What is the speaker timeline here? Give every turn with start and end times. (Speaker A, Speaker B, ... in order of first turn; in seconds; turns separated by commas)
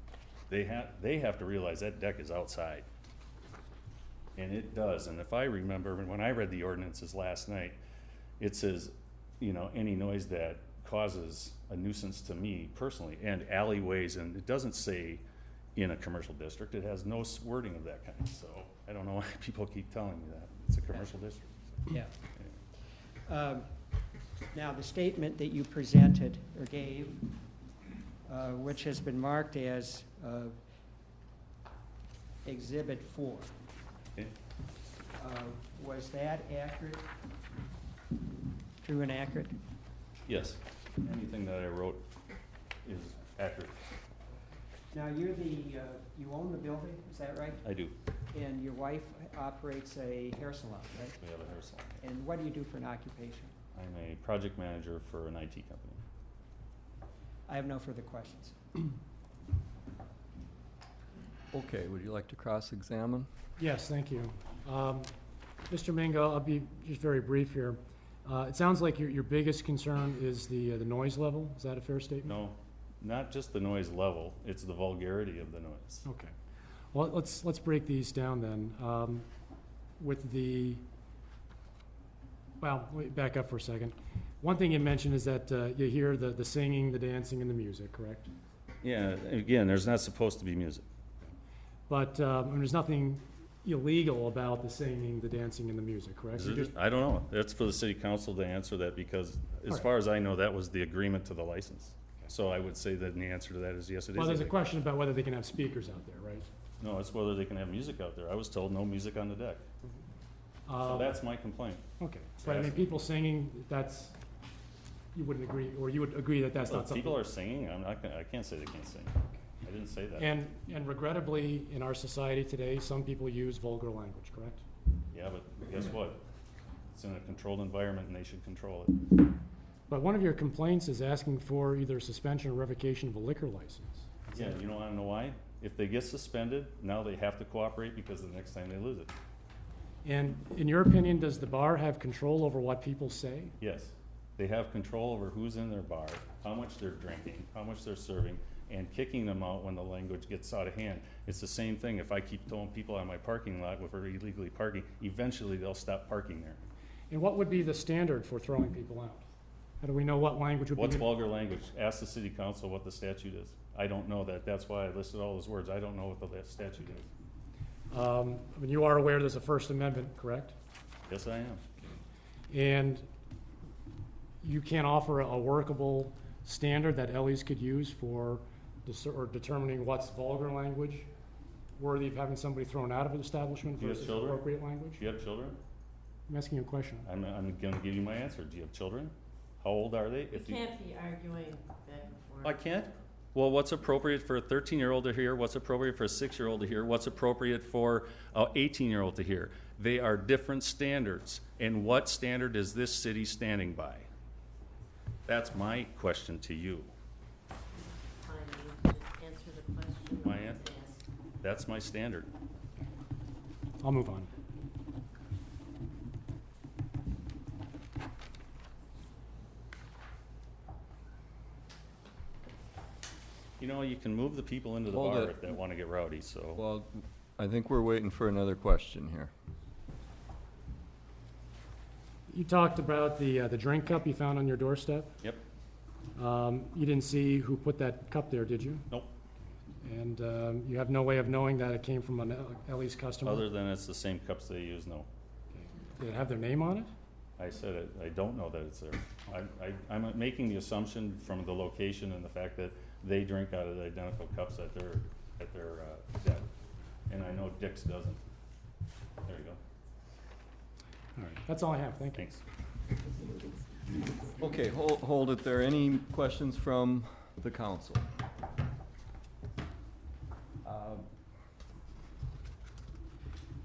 Speaker A: 0.5-2.9, Speaker A: 4.4-7.8, Speaker A: 8.4-15.2, Speaker A: 15.8-22.5, Speaker B: 23.3-23.7, Speaker B: 24.5-27.2, Speaker B: 28.3-30.6, Speaker B: 32.5-33.5, Speaker B: 35.2-37.1, Speaker B: 38.8-39.6, Speaker A: 40.3-42.0, Speaker A: 42.8-43.8, Speaker B: 44.9-47.6, Speaker A: 47.6-47.9, Speaker B: 48.3-51.2, Speaker A: 51.2-52.0, Speaker B: 52.0-53.5, Speaker A: 53.7-56.0, Speaker B: 57.5-58.5, Speaker C: 61.5-63.3, Speaker D: 63.6-65.1, Speaker D: 65.7-72.3, Speaker A: 72.2-76.0, Speaker D: 76.0-76.3, Speaker D: 76.9-79.3, Speaker D: 80.0-80.8, Speaker D: 82.6-88.3, Speaker A: 88.8-90.8, Speaker D: 91.9-96.7, Speaker A: 96.4-104.5, Speaker D: 104.2-106.5, Speaker A: 106.8-109.6, Speaker D: 110.7-111.2, Speaker A: 110.8-111.8, Speaker D: 112.0-114.1, Speaker A: 112.4-113.0, Speaker D: 115.1-117.2, Speaker A: 116.7-120.3, Speaker D: 120.2-124.6, Speaker A: 125.1-126.2, Speaker A: 126.9-129.0, Speaker D: 129.9-134.6, Speaker A: 134.3-139.1, Speaker D: 140.1-143.5, Speaker A: 143.6-156.6, Speaker D: 157.1-159.2, Speaker D: 159.8-161.1, Speaker A: 160.8-167.1, Speaker D: 167.9-170.6, Speaker A: 171.1-171.6, Speaker D: 172.5-173.1, Speaker D: 174.4-181.1, Speaker D: 181.8-185.0, Speaker A: 183.8-185.6, Speaker D: 186.3-187.1, Speaker A: 187.1-190.7, Speaker E: 190.3-192.6, Speaker A: 192.4-204.1, Speaker A: 205.3-206.9, Speaker E: 207.8-211.0, Speaker A: 210.2-210.7, Speaker A: 211.4-212.3, Speaker D: 213.8-214.3, Speaker A: 223.6-226.6, Speaker C: 224.9-225.4, Speaker C: 226.6-229.3, Speaker D: 232.3-235.1, Speaker D: 236.2-238.8, Speaker D: 239.8-243.5, Speaker A: 243.2-245.1, Speaker D: 246.0-246.9, Speaker A: 247.4-256.5, Speaker A: 257.1-258.2, Speaker A: 259.2-259.6, Speaker D: 261.2-262.2, Speaker A: 262.1-262.4, Speaker C: 264.4-268.1, Speaker C: 270.6-271.1